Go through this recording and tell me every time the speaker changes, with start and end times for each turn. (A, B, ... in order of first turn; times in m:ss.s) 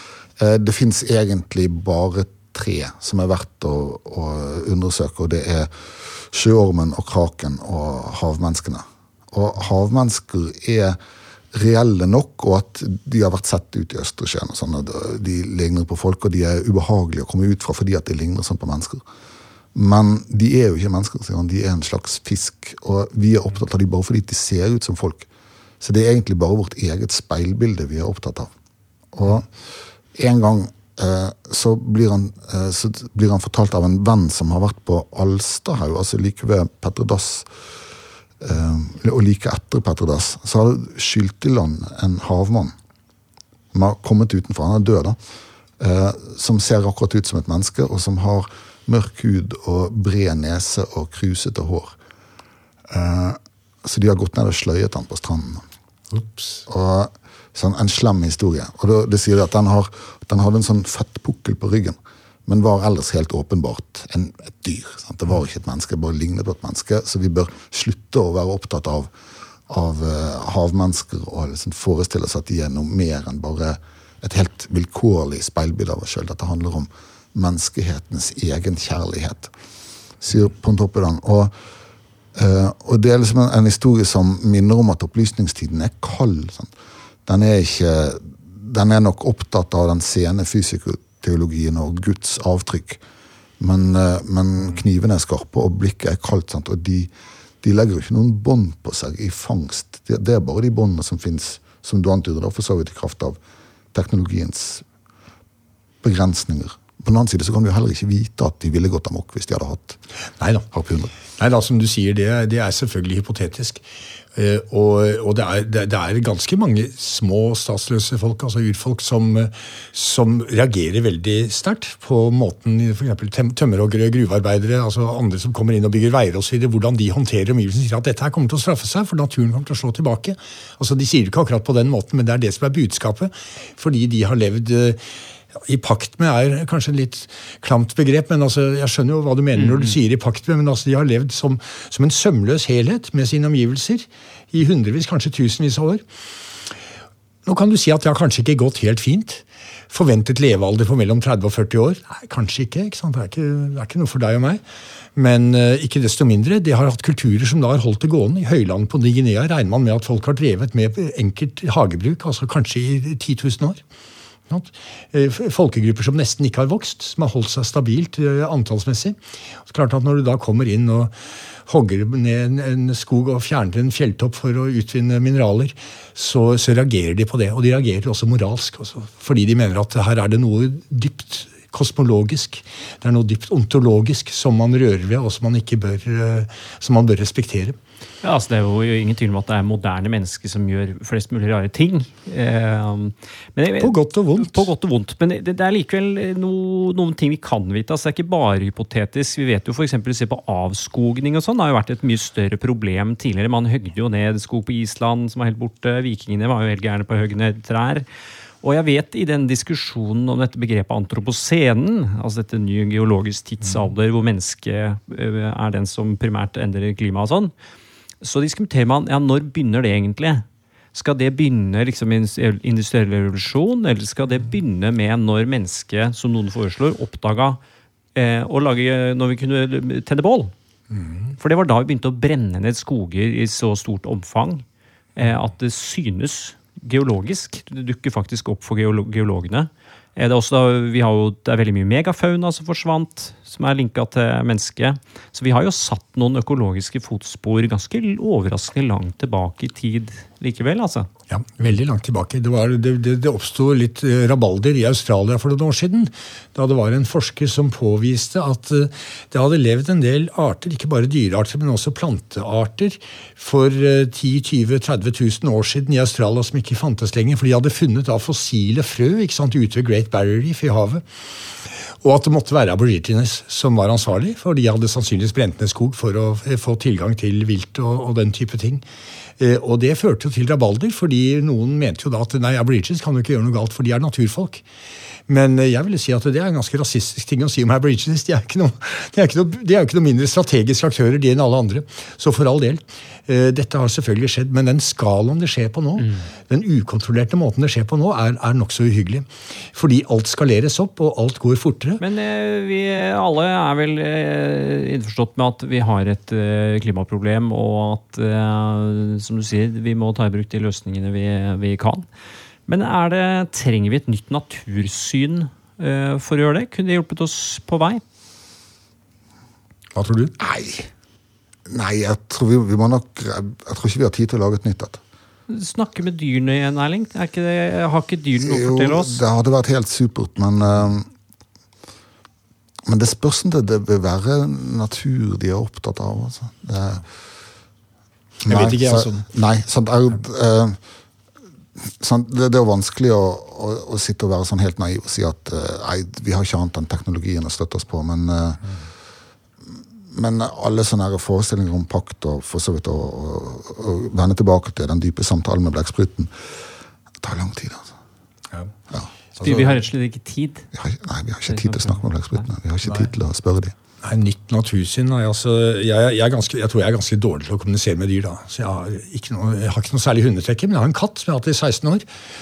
0:00.4-0:11.0 A
0:11.5-0:19.0 A
0:19.8-0:25.3 A
0:25.8-0:28.5 A
0:29.1-0:29.5 A
0:30.2-0:37.5 A
0:38.4-0:42.8 A
0:43.7-0:45.2 A
0:45.8-0:52.0 A
0:52.9-0:55.6 A
0:56.1-0:56.6 B
0:56.7-1:09.1 A
1:09.7-1:19.5 A
1:20.2-1:21.5 A
1:22.4-1:26.7 A
1:27.3-1:33.0 A
1:33.6-1:37.1 A
1:37.6-1:43.4 A
1:43.9-1:44.8 A
1:46.0-1:50.0 A
1:50.4-1:50.7 B
1:50.7-1:51.1 A
1:51.3-1:53.8 B
1:54.4-2:15.0 B
2:15.6-2:26.0 B
2:19.6-2:20.0 C
2:27.5-2:34.6 B
2:35.2-2:43.8 B
2:44.5-2:49.2 B
2:49.7-2:51.1 B
2:51.7-3:07.8 B
3:08.2-3:28.0 C
3:13.8-3:14.7 B
3:28.6-3:37.5 C
3:38.2-3:47.6 C
3:48.2-3:50.5 C
3:51.4-3:54.6 C
3:55.2-4:11.1 C
4:11.3-4:31.0 B
4:32.0-4:38.8 B
4:39.4-4:44.6 B
4:45.3-5:02.0 B
5:02.0-5:12.0 C
5:12.7-5:18.0 C
5:20.0-5:20.4 B
5:20.4-5:20.9 A
5:21.7-5:25.0 A
5:25.5-5:29.2 C
5:28.4-5:31.1 A
5:32.9-5:37.0 A
5:38.4-5:40.8 A
5:38.5-5:39.3 B
5:41.8-5:48.6 A
5:50.1-5:56.3 A
5:57.2-5:58.0 A
5:59.4-5:59.8 B
5:59.4-6:00.7 C
6:00.7-6:03.8 A
6:01.5-6:02.0 C
6:04.0-6:12.0 B